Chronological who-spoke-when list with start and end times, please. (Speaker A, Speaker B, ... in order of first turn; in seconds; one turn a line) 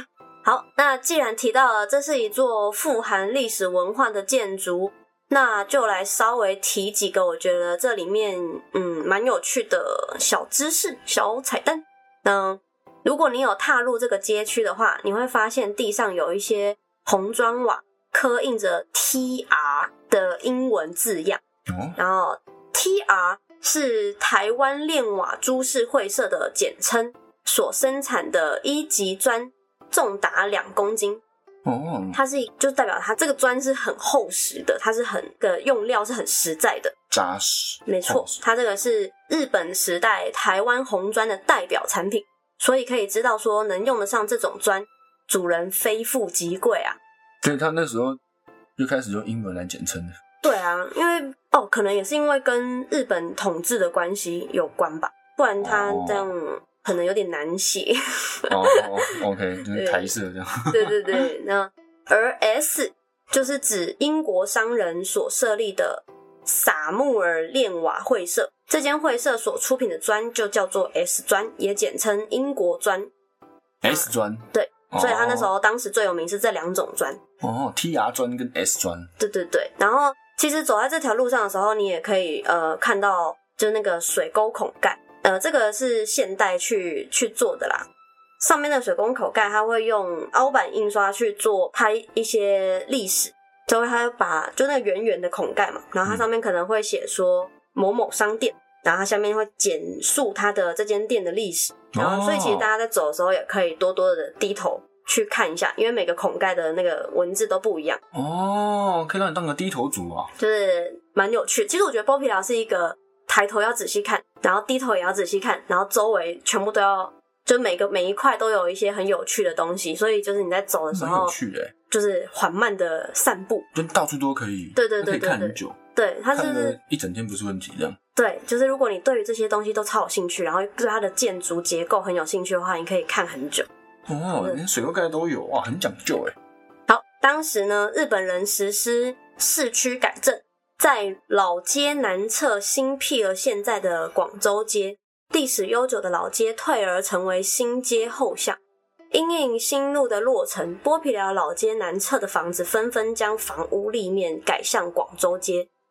Speaker A: 0.5-21.4
Speaker B: 21.7-22.0
Speaker A: 22.0-31.2
Speaker B: 31.6-32.2
Speaker A: 32.1-37.0
Speaker B: 37.1-38.4
Speaker A: 37.9-47.0
Speaker B: 47.4-48.2
Speaker B: 48.8-50.1
Speaker A: 50.4-59.2
Speaker B: 55.6-56.3
Speaker B: 58.5-61.3
Speaker A: 59.7-60.1
Speaker A: 60.7-73.1
Speaker B: 73.8-75.5
Speaker A: 73.9-77.2
Speaker B: 77.4-79.1
Speaker A: 79.2-87.9
Speaker A: 88.4-108.0
Speaker B: 101.9-102.7
Speaker B: 108.1-110.3
Speaker A: 110.4-121.3
Speaker B: 120.9-121.7
Speaker A: 121.9-123.7
Speaker B: 123.7-125.8
Speaker A: 124.8-126.8
Speaker B: 126.3-128.0
Speaker A: 128.2-133.7
Speaker B: 134.1-136.3
Speaker A: 136.9-148.6
Speaker A: 149.1-155.7